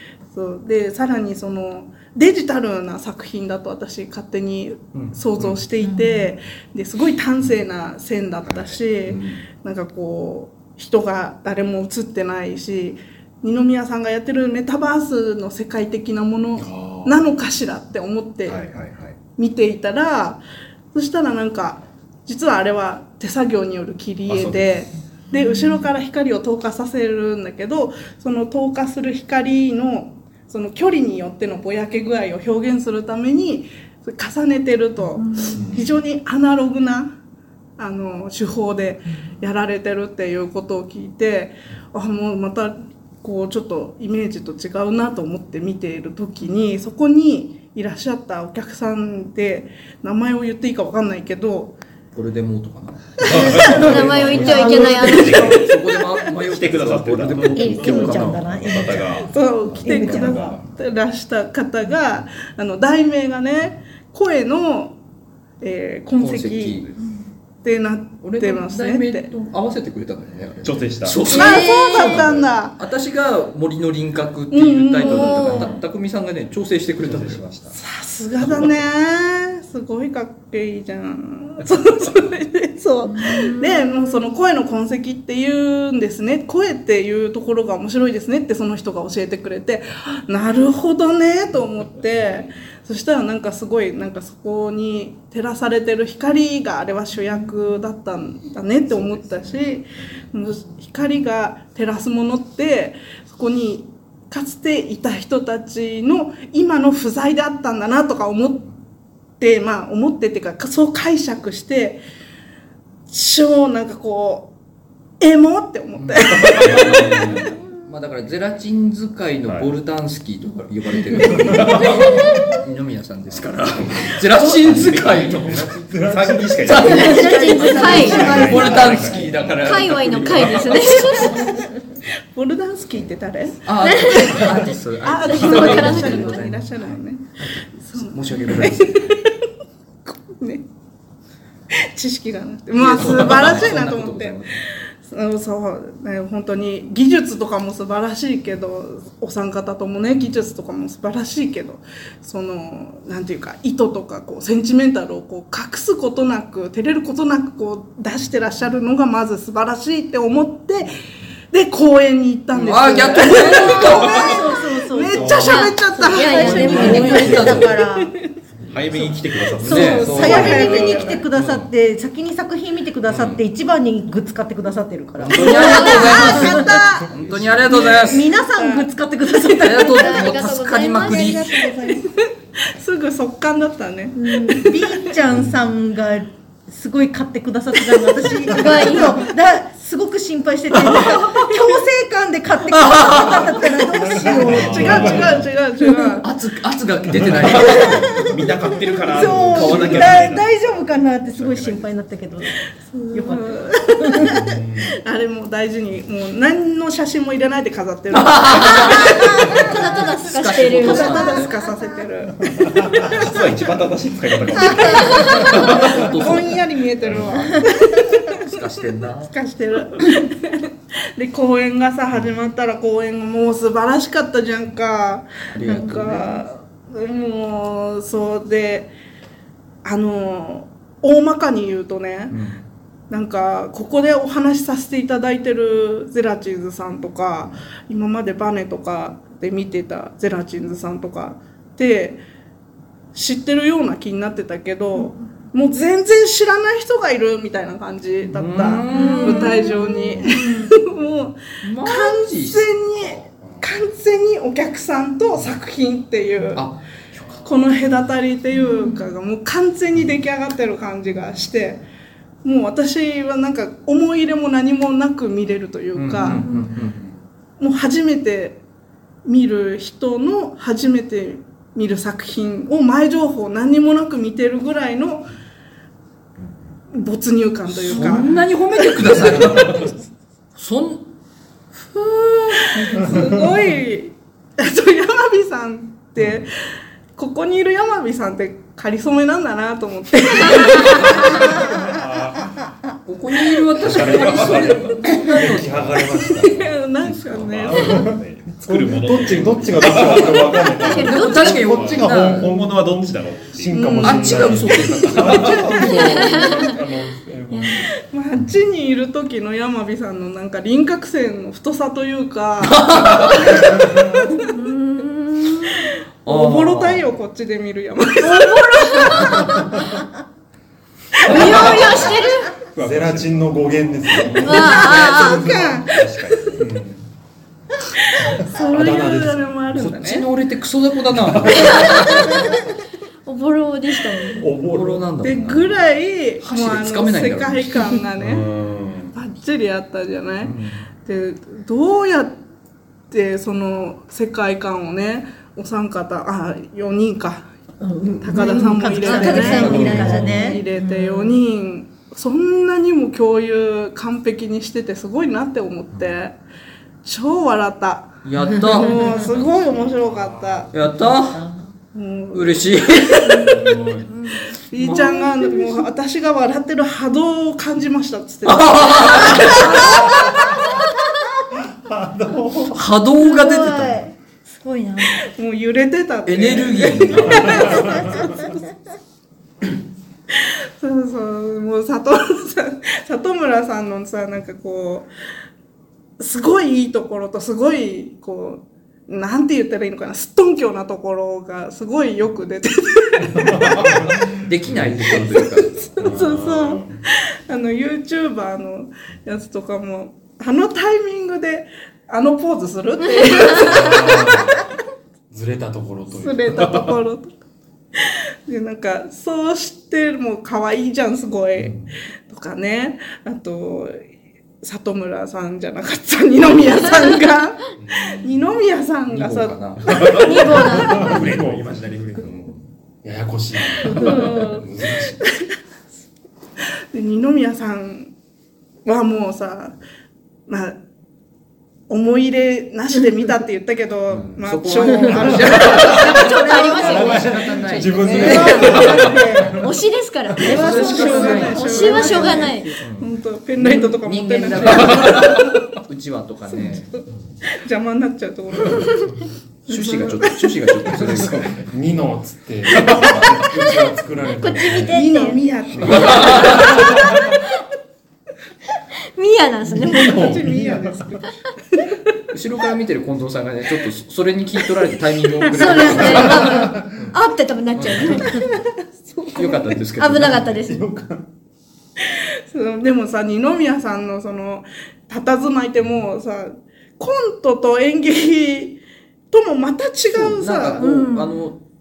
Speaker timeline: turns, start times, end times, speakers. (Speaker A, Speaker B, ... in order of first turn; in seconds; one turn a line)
Speaker A: 0.3-18.7
Speaker B: 4.9-5.6
Speaker C: 5.8-6.3
Speaker D: 8.4-8.8
Speaker E: 16.6-17.2
Speaker D: 18.4-19.2
Speaker A: 19.4-20.4
Speaker A: 20.9-37.1
Speaker D: 24.3-24.7
Speaker E: 35.4-35.9
Speaker A: 37.8-51.8
Speaker B: 52.1-59.0
Speaker D: 53.2-55.7
Speaker A: 53.2-53.9
Speaker C: 53.6-55.4
Speaker F: 53.6-55.6
Speaker A: 54.5-56.0
Speaker D: 56.5-60.6
Speaker C: 57.5-60.5
Speaker A: 59.2-65.0
Speaker A: 65.6-66.9
Speaker B: 66.2-66.9
Speaker A: 67.6-69.3
Speaker B: 68.2-77.4
Speaker D: 70.6-71.4
Speaker A: 71.2-72.8
Speaker F: 71.3-72.2
Speaker D: 72.1-72.4
Speaker A: 74.5-75.8
Speaker F: 75.0-75.7
Speaker D: 77.0-77.7
Speaker A: 77.7-108.7
Speaker D: 78.4-78.7
Speaker F: 83.1-84.1
Speaker A: 109.4-112.0
Speaker A: 113.1-114.5
Speaker A: 115.2-117.4
Speaker B: 116.0-125.7
Speaker E: 116.4-117.5
Speaker D: 119.5-119.7
Speaker D: 121.1-122.2
Speaker E: 121.4-121.8
Speaker D: 123.9-129.8
Speaker E: 124.7-126.8
Speaker B: 126.6-130.9
Speaker F: 126.8-128.5
Speaker C: 126.8-129.3
Speaker A: 126.9-128.5
Speaker F: 129.6-131.5
Speaker A: 132.3-134.5
Speaker B: 133.6-139.2
Speaker F: 133.8-136.4
Speaker A: 135.0-139.4
Speaker A: 140.1-140.7
Speaker A: 141.7-161.0
Speaker B: 142.8-144.6
Speaker A: 161.5-167.3
Speaker B: 162.5-164.5
Speaker C: 163.6-168.1
Speaker F: 163.7-164.2
Speaker E: 165.2-165.5
Speaker F: 165.4-167.8
Speaker B: 166.4-167.8
Speaker E: 166.8-167.7
Speaker A: 167.9-168.3
Speaker E: 168.6-169.1
Speaker D: 168.7-170.9
Speaker B: 169.6-170.9
Speaker C: 169.6-176.9
Speaker A: 169.9-171.2
Speaker E: 170.0-171.6
Speaker B: 173.1-173.4
Speaker B: 175.2-178.3
Speaker A: 175.4-177.1
Speaker F: 175.4-176.4
Speaker D: 177.1-177.8
Speaker A: 177.7-178.9
Speaker C: 177.8-181.6
Speaker B: 179.5-181.6
Speaker F: 179.8-182.1
Speaker A: 182.0-185.1
Speaker C: 184.1-195.3
Speaker E: 185.3-185.6
Speaker F: 188.5-189.2
Speaker A: 190.9-191.4
Speaker B: 192.7-193.5
Speaker E: 193.9-195.5
Speaker A: 194.2-196.3
Speaker B: 196.2-198.3
Speaker E: 197.1-197.8
Speaker D: 197.2-200.5
Speaker C: 197.6-198.4
Speaker C: 199.0-202.6
Speaker E: 199.2-200.4
Speaker E: 201.4-201.7
Speaker D: 201.4-201.8
Speaker A: 202.8-213.7
Speaker C: 203.1-204.4
Speaker E: 204.2-205.0
Speaker B: 208.1-211.5
Speaker F: 208.6-211.5
Speaker E: 212.5-213.2
Speaker D: 213.1-216.2
Speaker A: 214.5-218.7
Speaker B: 214.8-217.6
Speaker F: 215.0-215.5
Speaker E: 217.1-217.4
Speaker B: 218.3-219.3
Speaker A: 219.2-228.9
Speaker B: 225.5-226.4
Speaker A: 229.8-232.4
Speaker B: 232.3-232.6
Speaker A: 233.1-242.2
Speaker A: 243.1-256.7
Speaker B: 248.3-249.8
Speaker F: 248.9-250.7
Speaker B: 251.6-252.7
Speaker E: 253.0-253.7
Speaker B: 256.6-257.3
Speaker A: 257.4-261.8
Speaker F: 258.6-259.0
Speaker A: 262.4-266.4
Speaker B: 265.9-267.0
Speaker F: 266.4-266.7
Speaker E: 266.7-267.1
Speaker A: 267.6-268.6
Speaker A: 269.2-275.3
Speaker A: 276.9-279.3
Speaker B: 277.7-279.9
Speaker E: 279.3-279.7
Speaker D: 279.5-279.9
Speaker B: 280.6-281.1
Speaker B: 281.7-283.0
Speaker A: 282.6-286.5
Speaker E: 282.9-283.6
Speaker A: 287.1-291.9
Speaker E: 290.9-292.6
Speaker B: 293.1-296.3
Speaker E: 293.8-296.7
Speaker D: 294.0-295.1
Speaker D: 295.6-296.0
Speaker A: 296.2-298.2
Speaker D: 297.0-300.7
Speaker E: 297.8-307.9
Speaker F: 300.7-301.8
Speaker B: 300.9-302.6
Speaker D: 301.5-303.9
Speaker A: 303.7-304.7
Speaker B: 304.0-305.6
Speaker D: 304.7-305.9
Speaker A: 305.3-306.4
Speaker F: 305.9-306.7
Speaker F: 307.5-307.9
Speaker A: 308.0-314.6
Speaker B: 312.6-313.7
Speaker E: 313.6-314.3
Speaker F: 314.4-315.9
Speaker A: 315.7-319.6
Speaker B: 316.2-317.1
Speaker F: 318.2-319.9
Speaker D: 321.2-322.1
Speaker F: 321.2-322.5
Speaker B: 321.4-322.0
Speaker D: 322.7-324.3
Speaker E: 322.8-325.9
Speaker F: 324.4-325.4
Speaker A: 324.5-326.6
Speaker D: 325.9-326.6
Speaker E: 326.6-327.1
Speaker A: 328.0-330.3
Speaker E: 328.2-329.9
Speaker B: 329.7-332.6
Speaker E: 331.1-331.9
Speaker F: 331.5-332.6
Speaker F: 333.2-334.5
Speaker E: 334.4-335.1
Speaker B: 334.6-335.9
Speaker A: 335.2-338.5
Speaker B: 336.4-338.0
Speaker E: 338.2-339.1
Speaker A: 339.1-342.4
Speaker B: 340.4-340.9
Speaker A: 343.1-347.5
Speaker C: 347.8-351.4
Speaker A: 348.2-356.4
Speaker F: 349.0-350.6
Speaker B: 349.5-350.4
Speaker E: 349.6-350.5
Speaker A: 357.0-360.7
Speaker B: 358.2-359.5
Speaker C: 358.6-358.9
Speaker E: 359.3-360.7
Speaker B: 360.7-361.4
Speaker C: 361.1-361.7
Speaker A: 361.9-363.9
Speaker B: 362.3-363.6
Speaker F: 363.2-365.3
Speaker E: 363.4-364.1
Speaker A: 364.7-370.6
Speaker B: 364.7-365.3
Speaker B: 368.4-370.5
Speaker E: 369.9-370.3
Speaker E: 371.5-372.8
Speaker B: 372.7-374.1
Speaker C: 373.2-374.0
Speaker F: 373.5-373.9
Speaker F: 374.5-375.2
Speaker A: 375.2-378.6
Speaker B: 376.2-378.2
Speaker E: 377.2-378.4
Speaker A: 380.3-385.1
Speaker A: 386.2-393.9
Speaker E: 393.3-395.4
Speaker B: 394.3-396.0
Speaker A: 395.9-404.6
Speaker E: 396.0-397.0
Speaker E: 403.5-404.6
Speaker E: 405.3-406.9
Speaker A: 406.1-407.3
Speaker A: 407.9-414.0
Speaker A: 414.6-421.1
Speaker E: 417.8-418.3
Speaker B: 419.1-420.1
Speaker D: 419.9-422.5
Speaker F: 420.1-421.1
Speaker E: 420.7-422.2
Speaker B: 422.2-422.5
Speaker E: 423.0-425.2
Speaker A: 423.8-425.5
Speaker A: 426.9-428.1
Speaker A: 428.8-429.8
Speaker A: 430.5-430.8
Speaker A: 431.9-436.3
Speaker B: 434.1-439.1
Speaker F: 435.6-442.8
Speaker C: 436.1-439.6
Speaker E: 436.8-439.6
Speaker A: 438.2-439.2
Speaker B: 440.4-447.0
Speaker A: 440.4-445.5
Speaker C: 440.4-442.8
Speaker A: 446.5-450.7
Speaker B: 449.7-451.6
Speaker E: 450.9-455.0
Speaker F: 454.3-457.4
Speaker A: 454.9-457.3
Speaker B: 455.8-456.9
Speaker E: 456.0-457.2
Speaker F: 459.1-460.4
Speaker E: 459.6-461.1
Speaker A: 459.9-462.0
Speaker B: 462.3-467.2
Speaker F: 465.5-468.4
Speaker A: 465.6-466.4
Speaker E: 465.9-466.9
Speaker B: 467.7-468.4
Speaker A: 468.2-469.8
Speaker B: 469.3-470.5
Speaker F: 470.0-470.9
Speaker E: 470.4-471.3
Speaker A: 472.0-478.8
Speaker A: 479.3-480.9
Speaker B: 480.1-481.6
Speaker F: 480.8-481.4